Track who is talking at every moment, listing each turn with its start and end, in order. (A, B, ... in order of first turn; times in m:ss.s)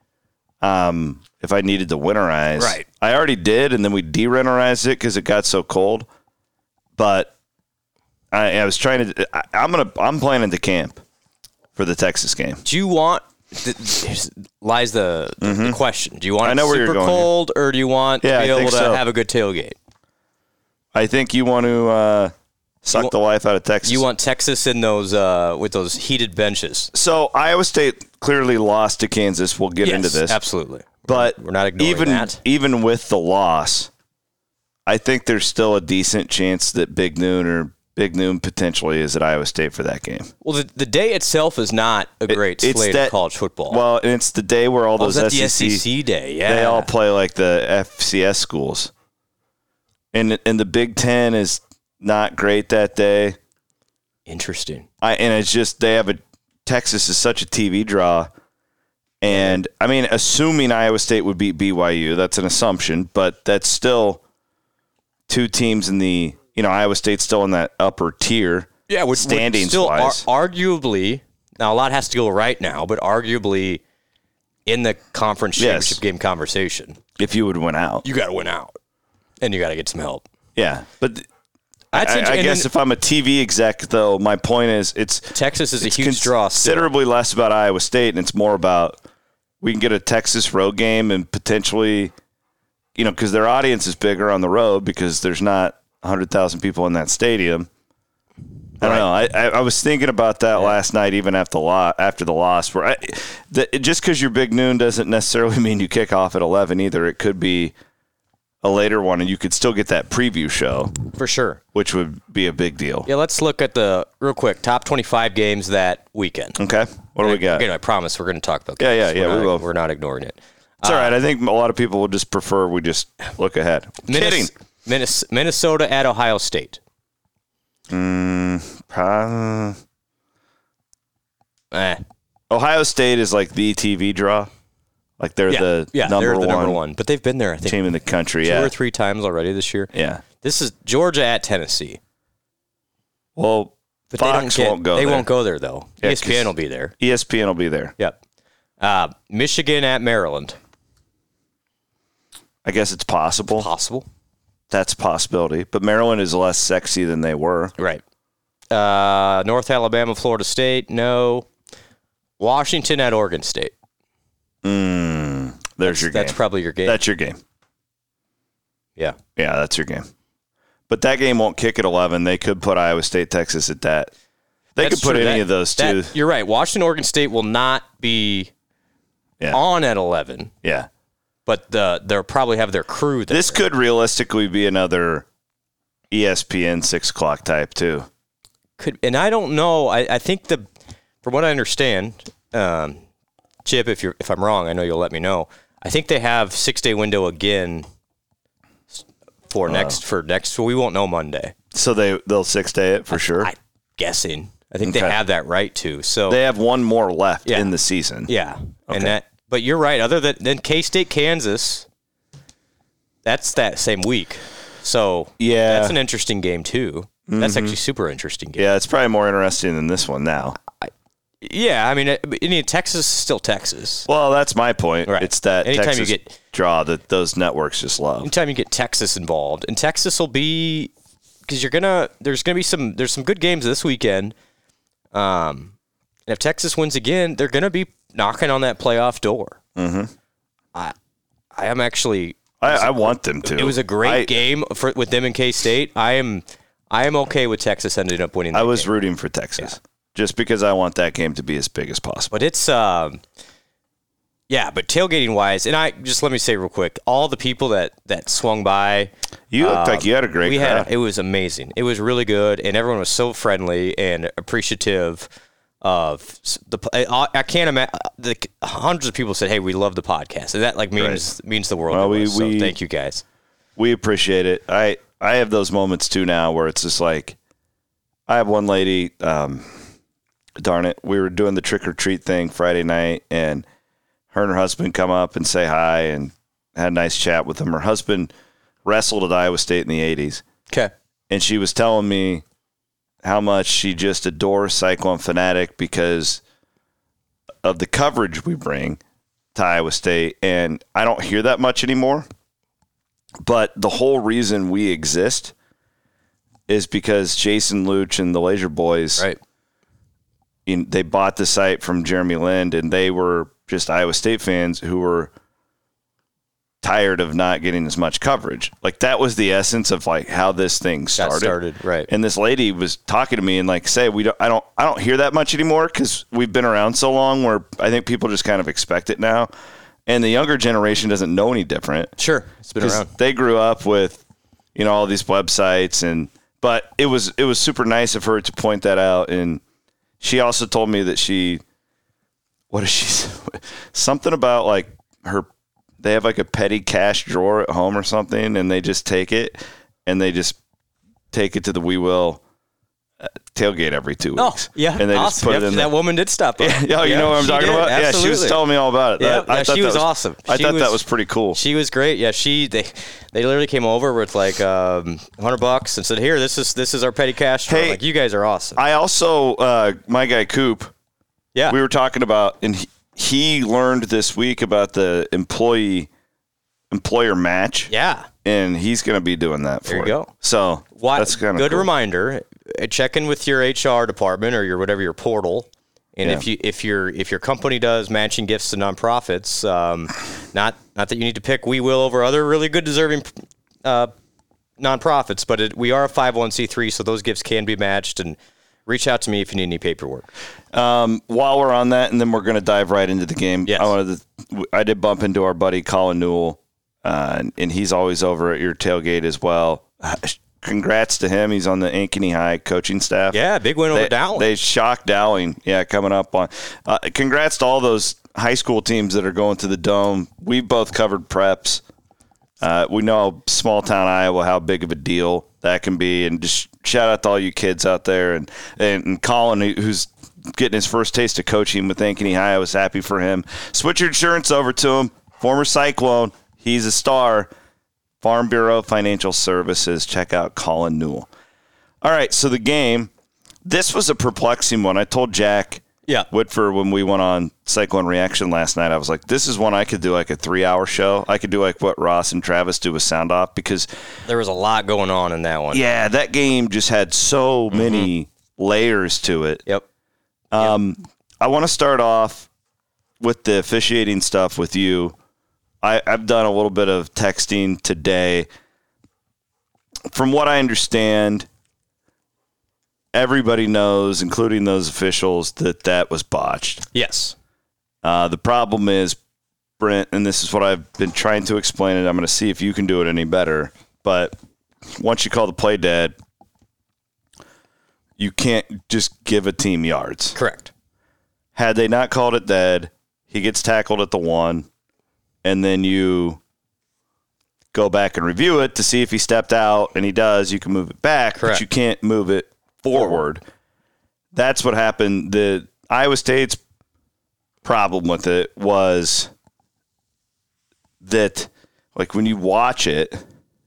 0:00.6-0:06.1 A
0:02.6-0:02.8 B
0:07.0-0:07.3 A
0:08.3-0:11.0 A
0:11.8-0:12.6 A
0:12.6-0:19.8 B
0:15.4-0:15.8 A
0:16.4-0:17.3 A
0:18.2-0:19.0 A
0:20.9-0:22.3 A
0:22.8-0:24.0 A
0:23.9-0:26.9 B
0:26.9-0:30.4 A
0:29.8-0:32.4 B
0:31.1-0:33.9 A
0:34.9-0:40.3 A
0:40.4-0:43.8 B
0:42.3-0:43.2 A
0:43.7-0:45.8 A
0:45.0-0:46.9 B
0:46.5-0:48.9 A
0:50.1-0:53.4 A
0:54.3-0:54.9 B
0:55.0-0:58.3 A
0:59.2-1:04.2 A
0:59.3-0:59.6 B
1:05.3-1:10.3 A
1:08.9-1:13.8 B
1:14.7-1:17.0 B
1:15.6-1:16.0 A
1:17.2-1:18.0 A
1:18.0-1:18.7 B
1:19.4-1:20.2 B
1:20.6-1:21.3 A
1:21.9-1:22.7 B
1:21.9-1:29.0 A
1:25.4-1:26.9 B
1:29.6-1:32.1 A
1:33.0-1:37.7 A
1:38.8-1:47.7 A
1:38.8-1:39.1 B
1:48.6-1:51.0 A
1:51.2-1:51.6 B
1:51.7-1:53.1 A
1:53.1-1:56.6 B
1:56.6-1:57.7 A
1:57.2-2:01.2 B
1:58.8-1:59.6 A
2:00.8-2:04.5 A
2:04.1-2:06.8 B
2:07.9-2:09.8 A
2:11.7-2:12.0 B
2:12.5-2:14.5 A
2:15.2-2:16.8 A
2:15.5-2:17.8 B
2:17.7-2:18.7 A
2:18.4-2:22.0 B
2:19.9-2:20.2 A
2:23.4-2:25.3 A
2:24.1-2:26.9 B
2:26.0-2:27.9 A
2:28.8-2:30.6 B
2:32.6-2:33.7 A
2:33.6-2:34.1 B
2:34.7-2:37.7 A
2:38.7-2:41.5 B
2:42.4-2:43.7 B
2:44.6-2:47.4 A
2:45.8-2:47.0 B
2:49.4-2:50.1 A
2:50.9-2:54.1 A
2:54.8-2:56.2 A
2:54.8-2:58.5 B
2:59.5-3:00.5 B
3:01.5-3:03.6 B
3:03.3-3:05.2 A
3:06.1-3:08.1 A
3:08.8-3:10.7 B
3:11.2-3:13.0 B
3:13.6-3:17.9 B
3:18.9-3:21.6 B
3:19.7-3:20.0 A
3:21.7-3:23.5 A
3:23.1-3:26.4 B
3:24.8-3:25.2 A
3:26.3-3:28.3 A
3:27.5-3:27.7 B
3:28.3-3:31.9 B
3:28.9-3:29.2 A
3:33.2-3:38.7 B
3:35.4-3:36.0 A
3:37.3-3:37.8 A
3:38.6-3:40.6 A
3:41.4-3:44.1 B
3:44.1-3:48.3 A
3:45.1-3:46.4 B
3:48.2-3:50.9 B
3:51.5-3:54.3 B
3:55.1-3:55.7 B
3:56.3-3:59.6 B
3:59.8-4:00.1 A
4:01.5-4:08.9 B
4:02.6-4:04.4 A
4:08.5-4:12.3 A
4:12.3-4:13.2 B
4:14.5-4:25.3 B
4:19.5-4:20.9 A
4:25.8-4:33.2 B
4:31.9-4:32.7 A
4:33.8-4:37.4 A
4:38.3-4:39.7 A
4:40.6-4:43.6 A
4:44.3-4:48.3 A
4:48.8-4:50.4 A
4:51.3-4:52.4 A
4:53.2-4:56.4 A
4:57.6-4:59.0 A
4:59.6-5:02.3 A
5:03.4-5:05.5 A
5:06.7-5:09.2 A
5:10.7-5:15.3 A
5:16.8-5:21.6 A
5:21.2-5:22.1 B
5:22.1-5:29.5 A
5:30.1-5:32.1 A
5:32.2-5:33.1 B
5:32.8-5:34.2 A
5:34.8-5:39.6 A
5:40.2-5:41.6 A
5:42.7-5:45.5 A
5:46.0-5:50.6 A
5:51.3-5:52.4 A
5:53.2-5:55.9 A
5:54.4-5:58.6 B
5:56.6-6:01.6 A
5:59.2-6:01.0 B
6:01.5-6:08.8 B
6:07.7-6:08.0 A
6:08.8-6:10.9 A
6:11.7-6:16.1 A
6:16.9-6:17.9 A
6:17.9-6:18.3 B
6:18.4-6:21.9 A
6:19.9-6:20.3 B
6:21.0-6:34.1 B
6:34.8-6:40.3 B
6:40.7-6:53.4 A
6:43.7-6:43.9 B
6:53.3-6:54.5 B
6:53.9-7:01.8 A
7:02.6-7:17.5 A
7:18.2-7:21.3 A
7:22.0-7:23.1 A
7:23.6-7:33.9 A
7:34.3-7:35.8 B
7:35.7-7:39.6 A
7:37.7-7:38.1 B
7:40.5-7:42.5 A
7:43.2-7:45.2 A
7:45.8-7:48.5 A
7:50.1-7:51.5 A
7:53.1-7:56.8 A
7:56.9-7:57.4 B
7:58.0-7:59.2 A
7:59.8-8:04.4 A
8:04.9-8:06.1 A
8:08.2-8:10.4 A
8:10.4-8:10.7 B
8:11.6-8:14.7 A
8:15.4-8:16.4 A
8:17.7-8:23.4 A
8:21.4-8:21.6 B
8:24.3-8:26.6 A
8:27.6-8:29.3 A
8:31.0-8:33.2 A